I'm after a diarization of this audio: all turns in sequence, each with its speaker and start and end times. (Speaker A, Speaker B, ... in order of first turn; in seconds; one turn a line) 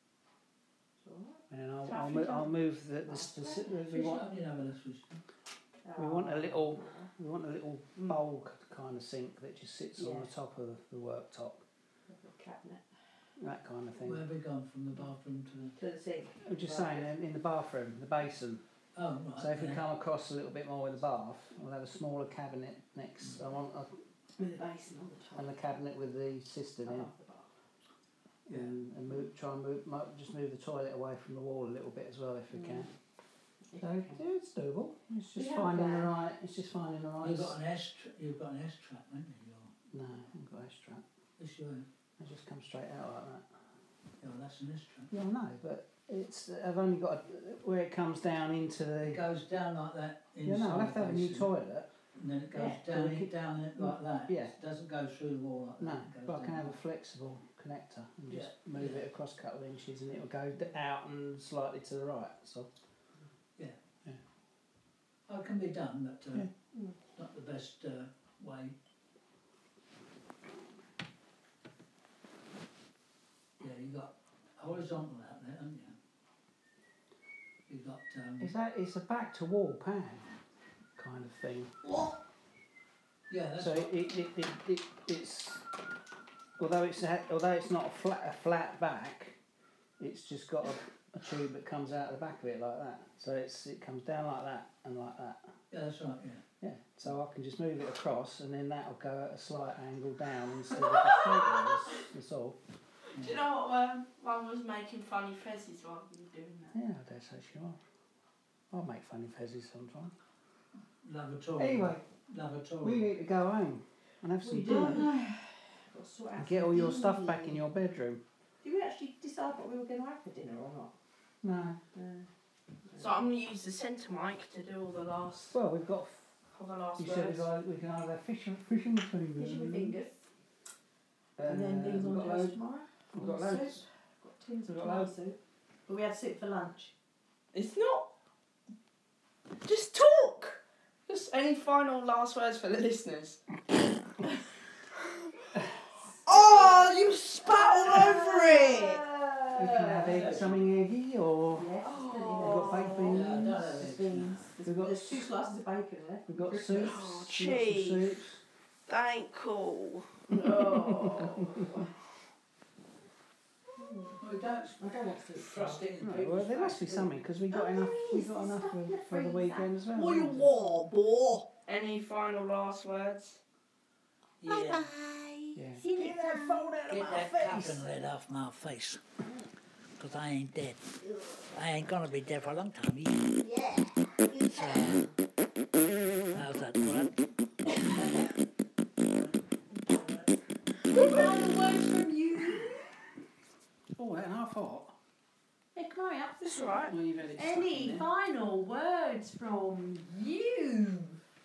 Speaker A: 1.0-3.9
Speaker B: 1.5-4.2
Speaker C: 3.9-5.2
Speaker A: 5.8-7.1
Speaker B: 6.0-11.6
Speaker A: 10.0-10.3
Speaker A: 12.1-12.8
Speaker B: 13.4-14.2
Speaker C: 14.0-15.8
Speaker A: 15.8-17.1
Speaker B: 16.4-18.6
Speaker C: 18.9-19.8
Speaker B: 19.4-23.9
Speaker A: 24.4-25.5
Speaker B: 25.3-27.1
Speaker A: 26.8-27.5
Speaker B: 28.5-32.9
Speaker A: 32.5-32.9
Speaker A: 33.7-34.2
Speaker B: 33.8-37.6
Speaker A: 35.4-36.1
Speaker C: 37.2-39.7
Speaker B: 39.9-41.0
Speaker C: 41.4-41.9
Speaker B: 42.2-43.5
Speaker C: 44.2-45.1
Speaker B: 45.1-49.2
Speaker C: 49.0-51.5
Speaker B: 50.4-51.9
Speaker C: 52.1-56.8
Speaker A: 52.5-52.8
Speaker B: 52.8-54.5
Speaker B: 55.8-62.7
Speaker C: 58.3-59.1
Speaker C: 65.3-66.5
Speaker C: 67.1-68.8
Speaker C: 73.6-76.0
Speaker C: 77.7-78.5
Speaker B: 78.4-80.3
Speaker B: 81.0-81.7
Speaker C: 83.3-83.9
Speaker B: 83.6-85.6
Speaker B: 86.6-89.3
Speaker B: 90.0-95.4
Speaker C: 95.7-96.4
Speaker B: 96.6-102.6
Speaker D: 100.8-102.0
Speaker D: 103.1-106.8
Speaker B: 106.7-107.8
Speaker B: 108.7-110.1
Speaker C: 111.0-113.1
Speaker B: 111.6-112.0
Speaker B: 112.8-115.1
Speaker A: 114.4-117.6
Speaker D: 114.7-115.2
Speaker B: 116.4-118.2
Speaker A: 118.6-121.0
Speaker B: 121.4-121.8
Speaker A: 121.9-122.3
Speaker A: 122.9-123.2
Speaker D: 123.0-125.5
Speaker B: 125.5-126.3
Speaker D: 126.5-127.5
Speaker B: 127.0-130.0
Speaker A: 129.4-130.2
Speaker B: 131.4-132.6
Speaker A: 131.4-136.9
Speaker B: 133.1-133.8
Speaker B: 134.7-135.1
Speaker D: 137.5-138.1
Speaker D: 139.6-143.4
Speaker A: 146.0-150.4
Speaker D: 146.2-149.0
Speaker B: 149.5-151.7
Speaker C: 150.0-150.7
Speaker A: 151.5-157.1
Speaker D: 151.8-153.2
Speaker B: 152.4-153.7
Speaker C: 153.1-154.4
Speaker B: 154.6-155.3
Speaker B: 156.3-158.4
Speaker D: 156.8-158.2
Speaker D: 158.9-161.9
Speaker A: 160.4-161.3
Speaker B: 160.9-161.8
Speaker A: 163.8-164.2
Speaker C: 164.2-167.1
Speaker A: 164.8-165.8
Speaker B: 166.0-170.5
Speaker A: 167.5-169.7
Speaker D: 169.9-173.4
Speaker C: 174.4-174.9
Speaker A: 174.6-177.8
Speaker B: 175.6-175.9
Speaker D: 175.9-177.6
Speaker C: 176.9-179.0
Speaker C: 180.0-183.4
Speaker A: 183.4-185.1
Speaker C: 184.5-185.0
Speaker C: 186.3-187.2
Speaker A: 190.8-192.9
Speaker B: 193.9-194.9
Speaker A: 195.7-196.8
Speaker D: 196.4-196.9
Speaker B: 196.8-198.1
Speaker A: 197.3-201.2